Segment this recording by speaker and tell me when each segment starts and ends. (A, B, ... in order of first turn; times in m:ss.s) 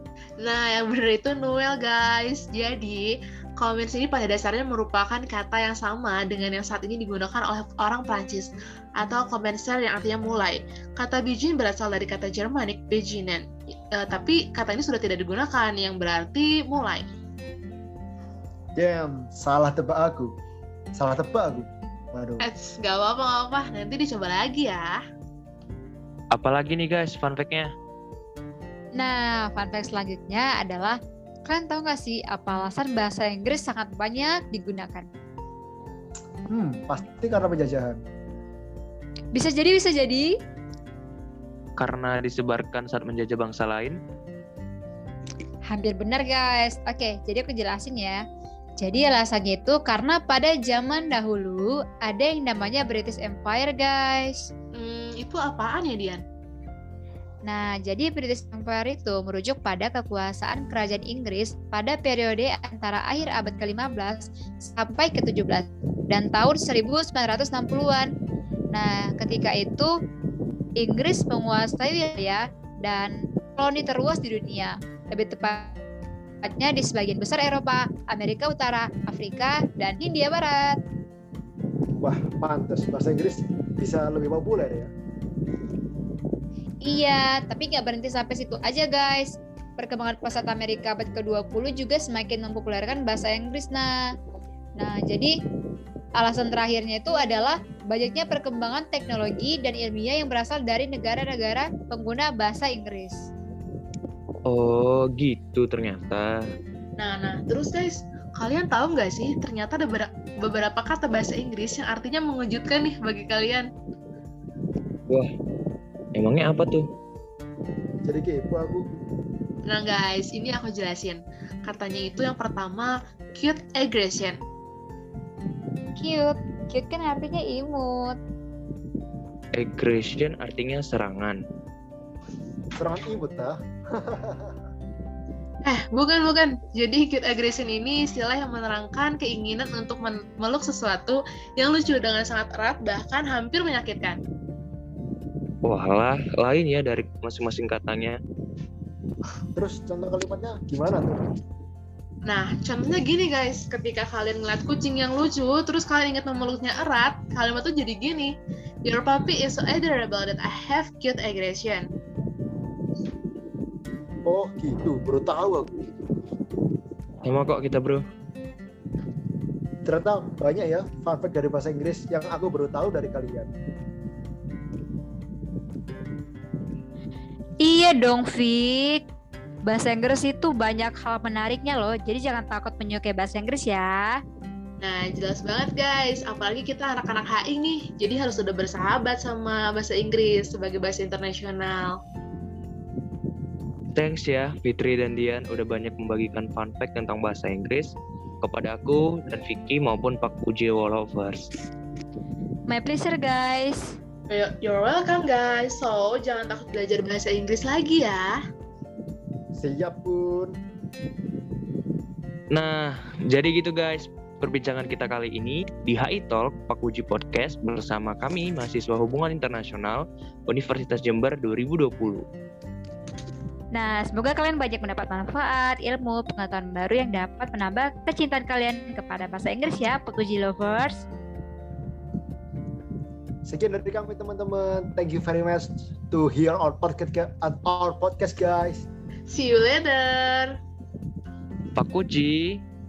0:00.4-0:17.1 A
0:18.8-0:20.3 B
0:20.9-0:22.5 B
0:22.4-0:25.0 A
0:26.3-0:27.7 C
0:29.0-0:35.1 D
0:36.5-0:38.0 B
0:39.3-0:40.3 D
0:41.8-0:44.0 C
0:45.7-0:48.2 D
0:48.8-0:54.5 D
0:54.7-0:56.2 A
0:57.4-1:08.1 D
1:08.7-1:09.9 D
1:10.8-1:15.7 D
1:16.4-1:20.8 D
1:22.0-1:24.9 B
1:26.8-1:34.0 D
1:34.8-1:35.3 D
1:36.2-1:43.3 D
1:44.4-1:46.4 C
1:47.0-1:53.7 A
1:56.1-1:56.8 C
1:58.0-1:58.8 B
1:59.6-2:04.4 A
2:06.0-2:08.2 D
2:09.5-2:11.4 C
2:12.8-2:14.5 B
2:15.6-2:24.2 A
2:25.6-2:28.2 C
2:29.6-2:31.3 B
2:32.2-2:41.9 A
2:44.2-2:45.9 B
2:47.2-2:48.0 C
2:49.8-2:53.5 B
2:57.6-2:59.0 D
2:59.6-3:04.2 D
3:04.8-3:12.0 A
3:13.9-3:21.5 C
3:22.7-3:23.9 D
3:24.3-3:28.4 A
3:29.6-3:30.6 B
3:32.5-3:42.2 C
3:43.7-3:51.0 D
3:53.4-3:58.9 B
3:59.3-4:00.5 A
4:01.7-4:02.6 C